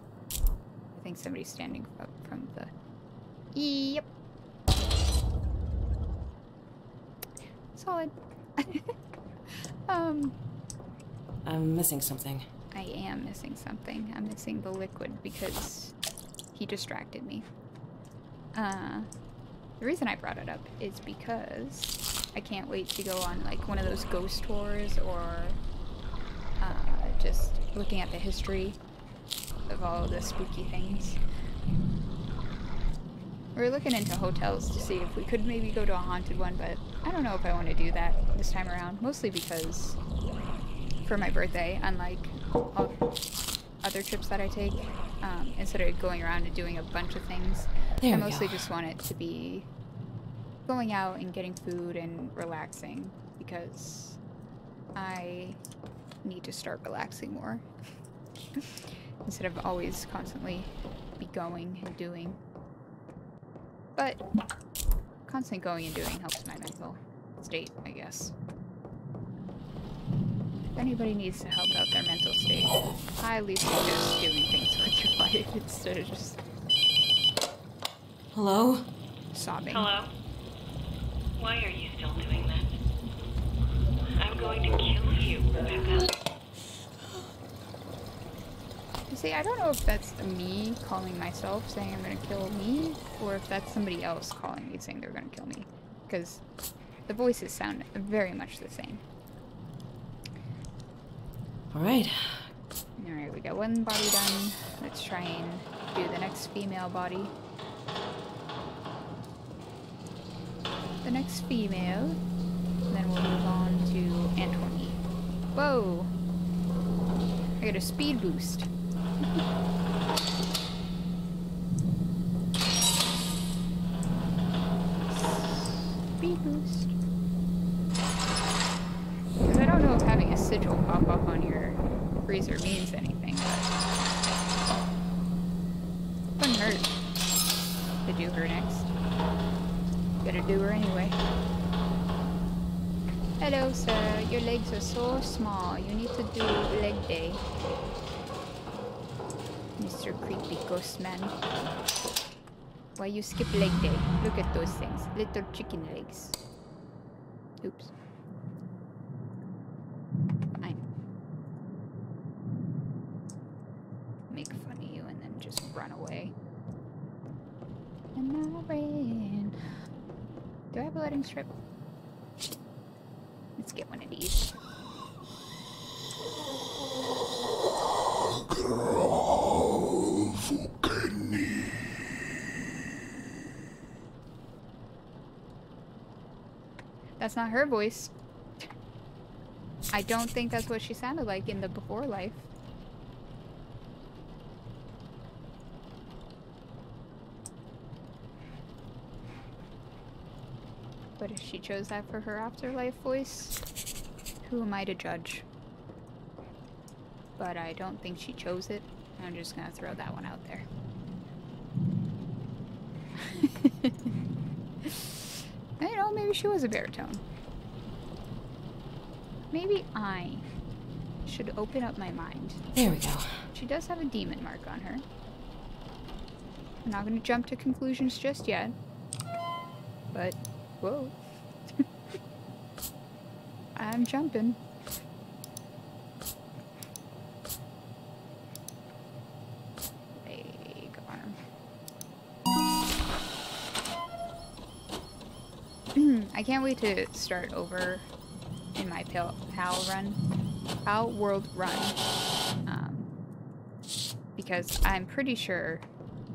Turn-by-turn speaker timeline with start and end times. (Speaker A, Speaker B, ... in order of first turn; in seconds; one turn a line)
Speaker A: 0.9-2.7
Speaker A: 3.5-4.1
Speaker A: 7.8-8.9
Speaker A: 9.5-10.3
Speaker B: 11.4-12.4
Speaker A: 12.7-15.9
Speaker A: 16.5-17.5
Speaker A: 18.5-19.1
Speaker A: 19.8-25.6
Speaker A: 26.6-28.8
Speaker A: 29.7-31.2
Speaker A: 33.5-40.0
Speaker A: 41.0-43.0
Speaker A: 43.8-49.7
Speaker B: 48.0-48.6
Speaker A: 50.7-54.2
Speaker A: 55.0-55.6
Speaker A: 56.2-57.6
Speaker A: 58.6-62.4
Speaker A: 64.0-64.2
Speaker A: 65.3-68.3
Speaker A: 70.8-76.4
Speaker B: 78.3-78.9
Speaker A: 79.3-79.9
Speaker C: 79.7-80.1
Speaker C: 81.4-82.8
Speaker C: 84.2-86.1
Speaker A: 89.1-96.4
Speaker A: 97.1-99.0
Speaker B: 101.7-102.5
Speaker A: 103.0-107.3
Speaker A: 111.0-112.2
Speaker A: 112.9-115.0
Speaker A: 115.5-116.1
Speaker A: 117.6-118.7
Speaker A: 125.0-126.9
Speaker A: 129.4-133.7
Speaker A: 136.4-136.9
Speaker A: 138.1-138.9
Speaker A: 140.2-141.2
Speaker A: 143.4-147.4
Speaker A: 149.8-151.4
Speaker A: 153.0-156.4
Speaker A: 157.6-157.9
Speaker A: 164.3-166.3
Speaker A: 168.2-169.6
Speaker A: 170.7-171.6
Speaker A: 173.6-174.5
Speaker A: 187.2-188.1
Speaker A: 189.9-192.5
Speaker A: 201.2-203.6
Speaker A: 204.4-205.4
Speaker A: 207.4-210.7
Speaker A: 213.2-214.1
Speaker A: 214.8-217.2
Speaker A: 219.5-220.5
Speaker A: 221.2-222.6
Speaker B: 222.8-223.5
Speaker A: 223.5-225.0
Speaker A: 226.8-228.8
Speaker A: 230.1-231.2
Speaker A: 233.8-234.6
Speaker A: 240.2-241.4
Speaker A: 245.9-248.1
Speaker A: 248.8-250.2
Speaker A: 250.8-252.0
Speaker A: 252.7-253.1
Speaker A: 254.4-255.8